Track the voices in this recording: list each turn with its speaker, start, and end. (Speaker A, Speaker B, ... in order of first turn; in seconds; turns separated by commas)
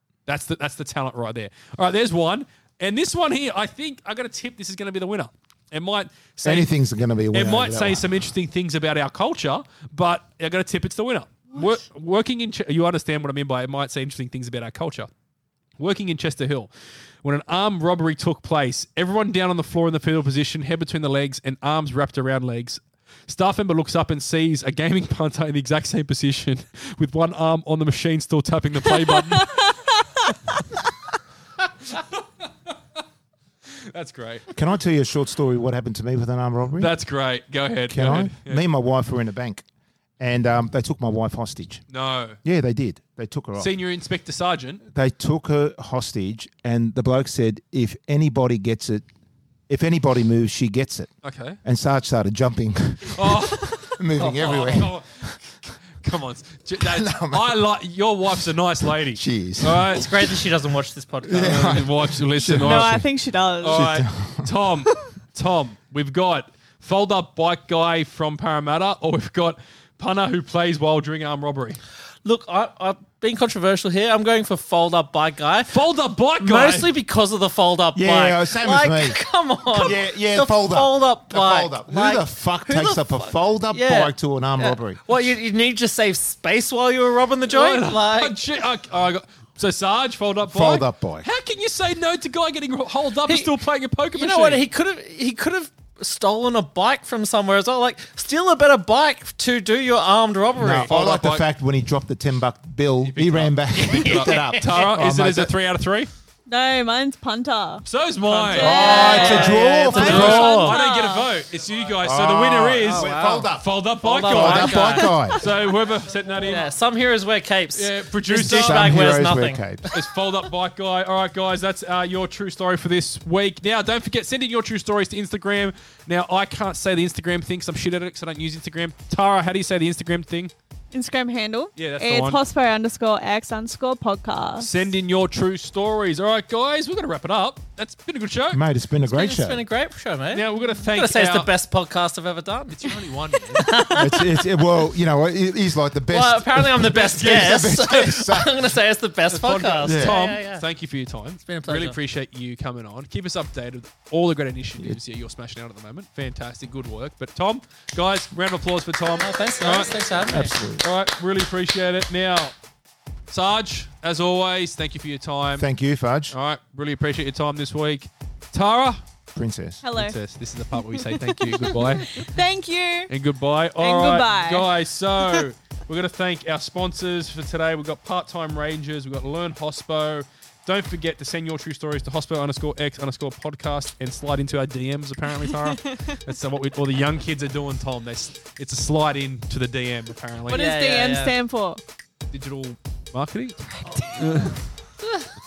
Speaker A: 0.3-6.7, Speaker B: 6.4-8.2, Speaker A: 7.3-15.1, Speaker A: 15.8-16.7, Speaker A: 17.2-29.7, Speaker C: 29.3-29.9, Speaker A: 31.8-32.2, Speaker A: 33.7-34.5, Speaker B: 34.5-36.9, Speaker A: 36.8-38.6, Speaker B: 37.9-39.6, Speaker B: 40.2-41.8, Speaker A: 41.9-42.4, Speaker B: 42.4-43.7, Speaker A: 43.6-44.8, Speaker B: 44.9-49.0, Speaker B: 49.7-51.1, Speaker A: 51.2-51.6, Speaker B: 51.6-55.3, Speaker A: 53.1-55.4, Speaker A: 56.0-60.1, Speaker B: 56.8-57.6, Speaker B: 59.0-60.0, Speaker D: 59.9-61.8, Speaker B: 61.2-63.1, Speaker A: 61.3-63.0, Speaker C: 62.4-63.9, Speaker A: 63.6-71.8, Speaker B: 63.6-64.5, Speaker D: 72.2-75.8, Speaker A: 75.7-76.9, Speaker D: 76.4-88.4, Speaker B: 77.9-79.2, Speaker B: 79.7-85.0, Speaker A: 87.5-94.6, Speaker B: 90.4-91.3, Speaker D: 93.2-93.5, Speaker D: 94.1-100.9, Speaker B: 100.6-105.5, Speaker A: 100.6-101.4, Speaker A: 103.1-106.1, Speaker D: 103.8-104.8, Speaker C: 106.5-107.8, Speaker A: 107.8-116.7, Speaker D: 108.2-110.8, Speaker C: 108.5-111.3, Speaker B: 108.6-110.5, Speaker B: 112.0-113.7, Speaker D: 112.9-113.5, Speaker D: 114.0-115.2, Speaker B: 114.2-115.5, Speaker D: 116.5-119.6, Speaker A: 117.7-119.0, Speaker B: 118.5-119.9, Speaker A: 119.9-130.5, Speaker C: 130.9-134.7, Speaker A: 131.8-132.4, Speaker A: 134.6-138.6, Speaker B: 138.5-139.6, Speaker D: 139.1-144.3, Speaker A: 140.3-141.5, Speaker C: 140.6-140.9, Speaker A: 142.7-143.6, Speaker B: 143.9-148.6, Speaker D: 146.1-150.6, Speaker A: 147.1-147.6, Speaker A: 149.3-160.0, Speaker B: 149.8-150.2, Speaker D: 151.4-152.0, Speaker D: 159.2-160.6, Speaker B: 160.3-160.8, Speaker A: 160.8-162.5, Speaker A: 163.3-165.7, Speaker B: 165.6-166.3, Speaker A: 166.3-169.0, Speaker B: 169.3-169.8, Speaker C: 169.8-170.2, Speaker A: 169.9-172.3, Speaker C: 170.7-173.1, Speaker A: 173.1-190.7, Speaker C: 173.8-174.7, Speaker D: 190.5-191.3, Speaker C: 190.5-191.8, Speaker A: 192.3-194.6, Speaker C: 193.7-194.5